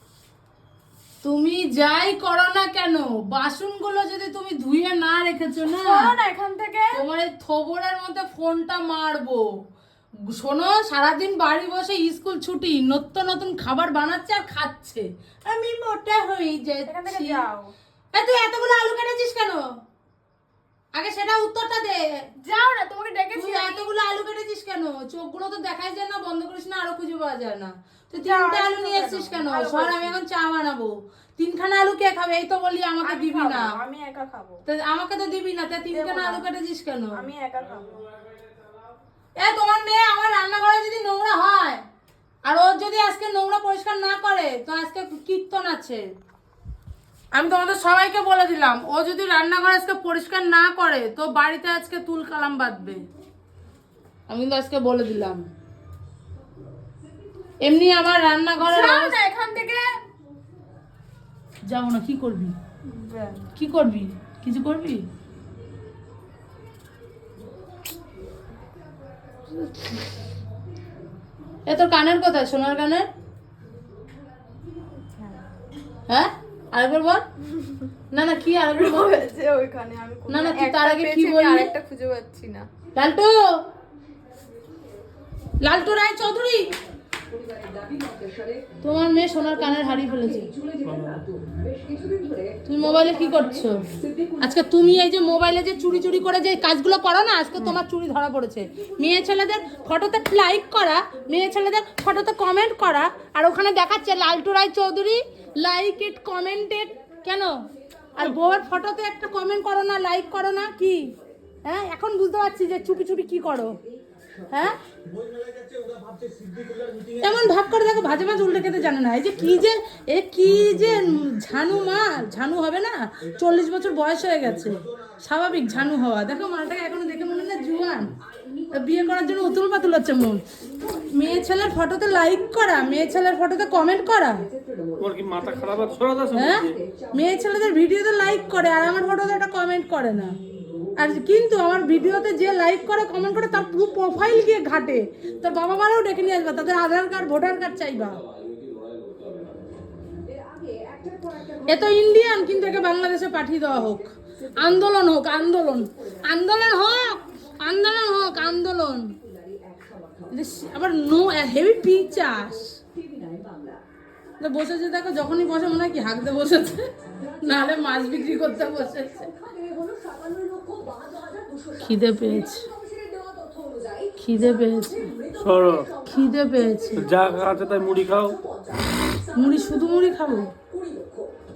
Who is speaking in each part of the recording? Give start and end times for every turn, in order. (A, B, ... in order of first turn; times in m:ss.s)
0:01.2-0:06.1 A
0:05.8-0:07.0 B
0:06.9-0:09.4 A
0:10.3-0:17.4 A
0:16.9-0:17.7 B
0:18.1-0:19.6 A
0:20.9-0:22.0 A
0:22.4-0:23.9 B
0:23.3-0:33.8 A
0:28.1-0:30.2 B
0:33.0-0:34.6 B
0:34.7-0:37.2 A
0:35.9-0:36.4 B
0:37.1-0:38.1 B
0:39.4-0:41.8 A
0:42.4-0:46.0 A
0:47.3-0:53.0 A
0:54.3-0:55.4 A
0:57.6-0:59.2 A
0:58.6-0:59.9 B
1:01.7-1:02.5 A
1:02.8-1:03.5 B
1:03.5-1:05.0 A
1:11.7-1:13.1 A
1:15.1-1:15.5 B
1:16.1-1:17.2 A
1:17.6-1:17.9 B
1:18.1-1:19.2 A
1:18.7-1:22.7 B
1:20.3-1:21.7 A
1:22.9-1:23.4 A
1:25.6-1:26.7 A
1:28.8-1:30.5 A
1:30.8-1:31.2 C
1:32.6-1:33.7 A
1:34.4-1:47.5 A
1:48.2-1:51.0 A
1:51.6-1:53.8 A
1:54.5-1:54.7 A
1:57.2-2:08.1 A
2:08.7-2:10.4 A
2:11.1-2:14.4 A
2:15.0-2:16.8 C
2:16.3-2:20.3 A
2:21.0-2:28.2 A
2:31.7-2:39.1 A
2:40.3-2:42.6 A
2:44.4-2:46.8 A
2:47.4-2:49.3 A
2:51.8-2:52.7 A
2:54.2-2:55.0 A
2:55.3-2:55.9 C
2:56.1-2:57.0 A
2:57.0-2:58.4 C
2:59.3-3:00.5 A